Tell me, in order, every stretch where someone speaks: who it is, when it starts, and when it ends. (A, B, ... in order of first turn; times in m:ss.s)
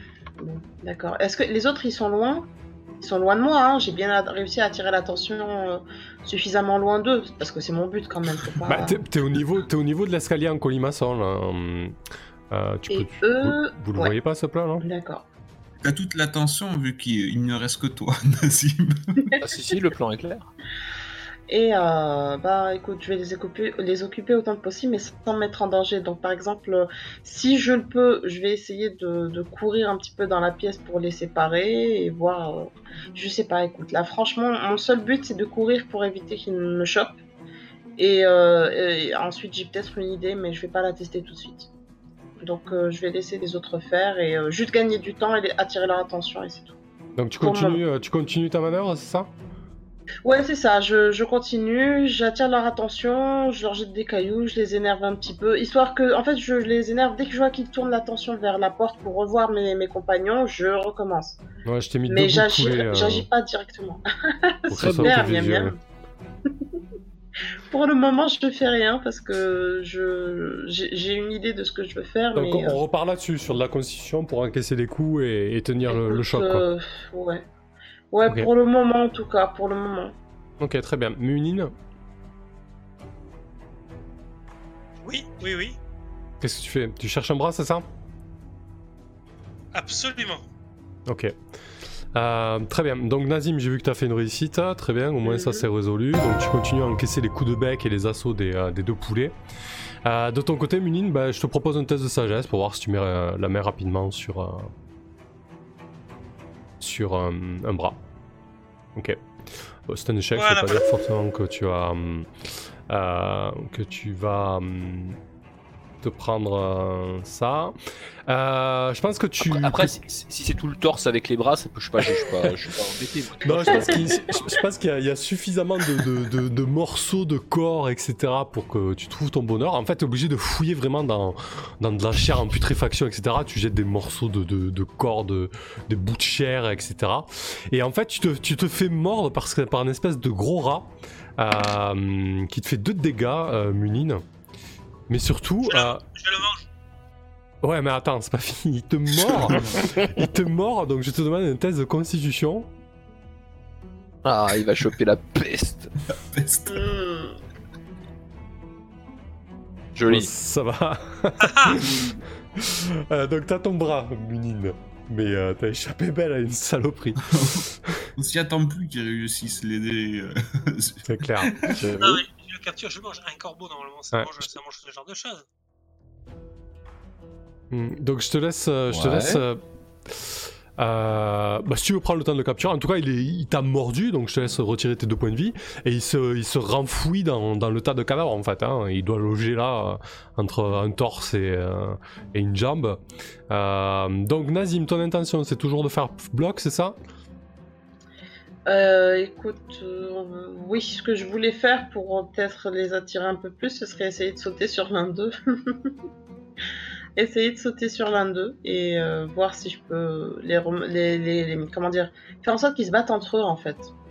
0:00.4-0:02.5 A
0:03.0-0:09.0 A
0:08.6-0:11.9 B
0:12.5-0:14.8 B
0:12.9-0:14.1 A
0:14.8-0:15.2 A
0:15.8-0:19.3 C
0:19.4-0:20.5 D
0:21.5-0:37.2 A
0:38.0-0:41.7 A
0:42.4-0:46.7 A
0:47.2-0:49.3 B
0:47.4-0:47.8 A
0:50.2-1:01.4 A
1:01.6-1:03.3 B
1:02.1-1:05.8 A
1:04.7-1:05.8 B
1:07.7-1:12.8 A
1:12.3-1:16.6 B
1:15.8-1:17.4 A
1:18.1-1:20.1 A
1:20.6-1:21.7 B
1:25.0-1:25.8 E
1:26.4-1:27.8 B
1:29.7-1:30.4 E
1:31.1-1:31.3 B
1:32.1-1:39.4 B
1:35.2-1:35.6 A
1:40.0-1:44.7 B
1:46.8-1:48.0 B
1:49.0-1:49.2 B
1:49.9-1:52.3 B
1:50.3-1:50.9 E
1:52.9-1:55.2 B
1:56.0-1:57.7 B
1:58.3-1:59.9 B
1:59.4-2:04.4 D
2:03.4-2:24.2 B
2:03.6-2:04.4 A
2:25.1-2:26.0 B
2:25.6-2:26.6 E
2:27.6-2:32.7 B
2:29.2-2:30.0 C
2:34.2-2:35.9 D
2:36.1-2:36.8 C
2:36.7-2:37.4 A
2:40.0-2:40.3 D
2:40.0-2:41.8 B
2:41.4-2:41.8 E
2:41.7-2:42.2 C
2:42.6-2:48.1 B
2:47.2-2:51.9 C
2:51.0-2:51.6 B
2:51.7-2:52.2 D
2:52.0-2:55.4 E
2:54.1-2:54.5 B
2:57.7-3:17.0 B
2:58.9-2:59.4 D
3:18.7-3:25.9 A
3:27.2-3:33.9 A